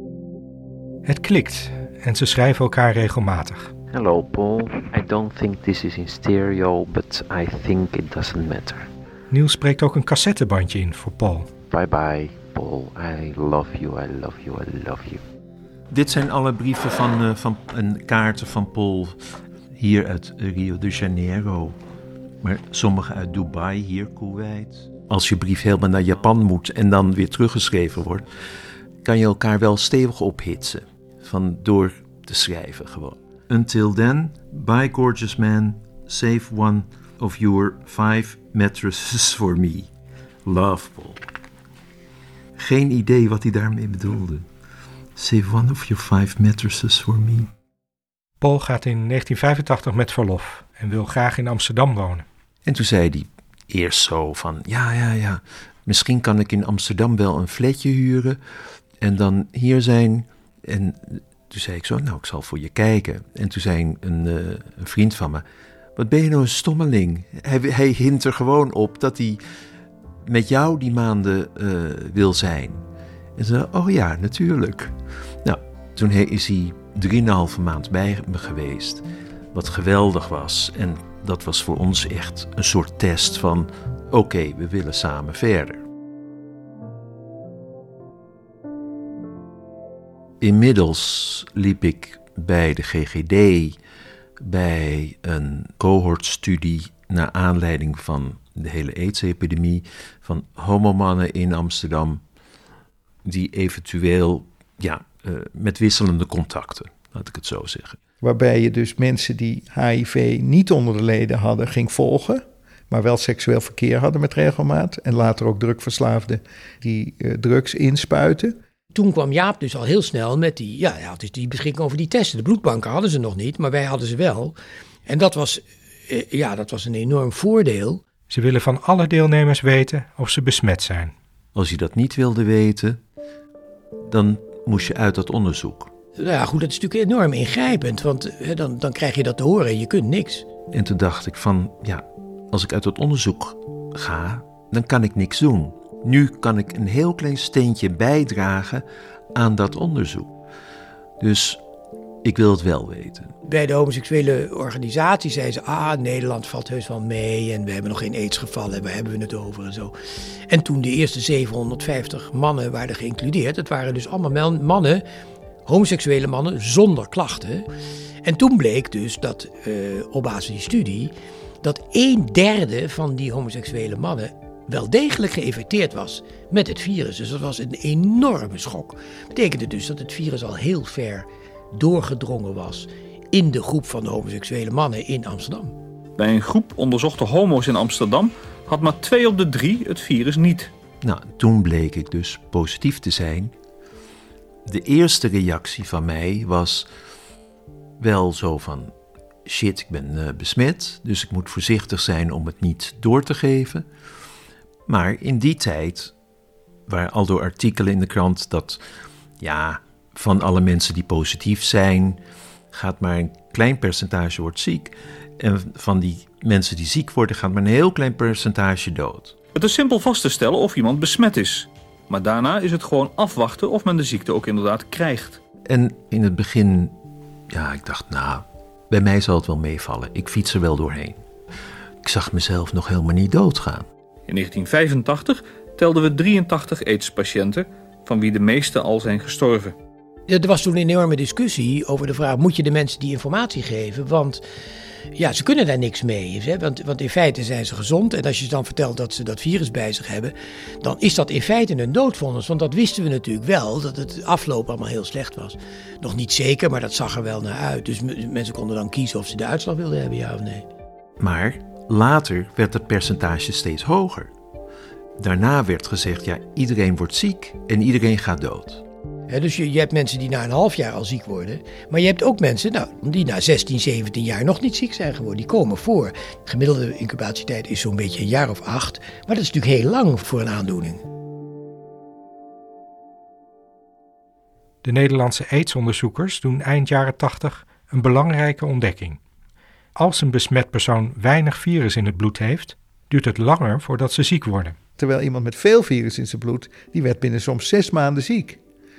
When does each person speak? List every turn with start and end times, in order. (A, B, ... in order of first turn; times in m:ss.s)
0:01.0-0:03.7 A
0:03.9-0:08.9 B
0:09.3-0:11.5 A
0:11.7-0:15.2 B
0:15.9-0:19.2 C
0:19.8-0:21.8 C
0:22.4-0:28.2 C
0:29.0-0:39.9 C
0:40.4-0:41.2 C
0:42.6-0:44.5 C
0:45.2-0:47.5 C
0:48.4-0:52.2 A
0:52.6-0:58.4 C
0:59.0-1:05.4 C
1:06.0-1:09.4 C
1:10.2-1:12.8 C
1:13.4-1:25.8 C
1:30.4-1:33.7 C
1:34.4-1:42.2 C
1:43.2-1:48.0 C
1:48.2-1:58.6 D
1:58.9-2:04.5 E
2:05.1-2:08.0 E
2:08.3-2:11.1 A
2:11.5-2:13.0 C
2:14.0-2:15.9 C
2:16.2-2:20.4 E
2:20.7-2:30.4 C
2:31.2-2:31.6 C
2:32.2-2:33.3 C
2:33.4-2:39.9 E
2:40.5-2:45.0 E
2:45.6-2:47.6 E
2:48.2-3:05.7 E
3:06.2-3:10.7 F
3:11.0-3:13.5 C
3:14.6-3:16.9 C
3:18.0-3:18.9 C
3:19.4-3:23.8 C
3:24.9-3:26.1 C
3:26.9-3:28.8 C
3:29.4-3:32.2 C
3:32.7-3:39.4 C
3:39.5-3:45.4 F
3:45.6-3:46.9 C
3:47.5-3:51.2 C
3:52.0-3:53.9 C
3:54.3-3:59.7 F
4:00.3-4:04.4 E
4:05.2-4:20.6 E
4:21.2-4:24.3 C
4:25.2-4:28.8 C
4:29.3-4:41.0 E
4:44.8-4:49.2 A
4:50.0-4:54.8 A
4:55.0-4:58.6 D